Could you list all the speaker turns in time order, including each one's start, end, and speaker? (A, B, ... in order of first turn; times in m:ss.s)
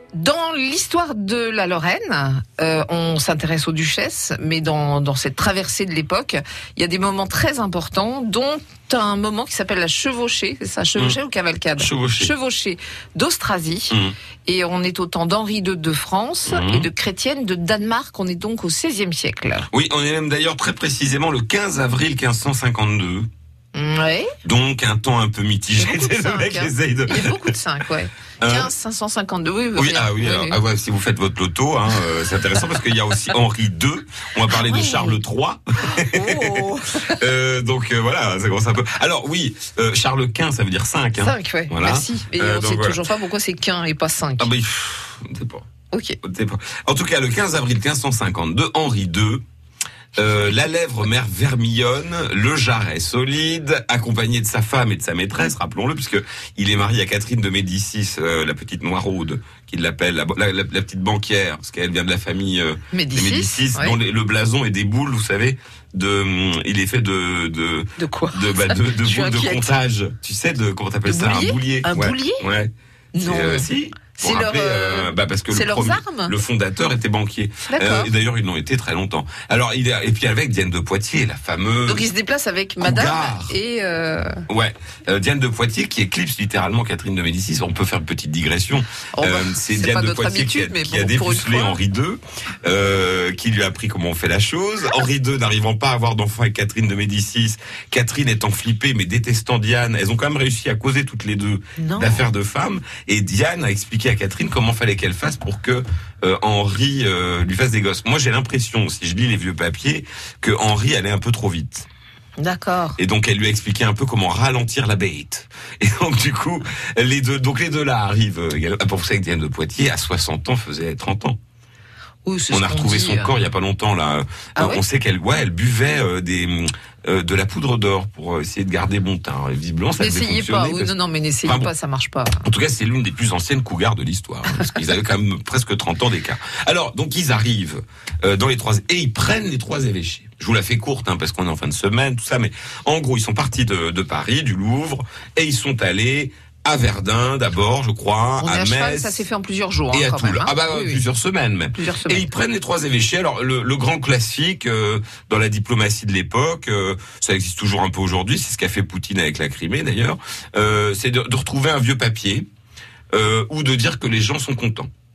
0:00.1-0:19.7 A
0:11.8-0:12.3 B
0:13.9-0:14.2 B
0:16.5-0:16.9 B
0:19.7-0:23.3 B
0:23.7-0:24.3 A
0:24.4-0:27.5 B
0:25.8-0:30.6 A
0:28.4-0:28.7 B
0:29.8-0:43.0 B
0:34.6-0:35.2 A
0:35.9-0:37.2 A
0:41.2-0:44.5 A
0:44.4-0:45.7 B
0:45.9-0:46.2 A
0:46.2-0:49.4 B
0:50.2-1:22.1 B
1:02.9-1:04.0 A
1:08.0-1:09.7 A
1:11.1-1:12.4 A
1:13.2-1:16.4 A
1:17.7-1:18.1 A
1:21.9-1:24.4 A
1:22.8-1:23.6 B
1:24.5-1:51.9 B
1:29.1-1:31.8 A
1:41.8-1:42.2 A
1:52.4-1:53.0 A
1:53.0-2:01.4 B
2:02.2-2:03.4 A
2:02.5-2:11.7 B
2:04.6-2:04.8 A
2:10.0-2:12.4 A
2:12.4-2:29.2 B
2:28.4-2:31.0 A
2:29.9-2:42.5 B
2:31.7-2:32.3 A
2:43.1-2:44.9 B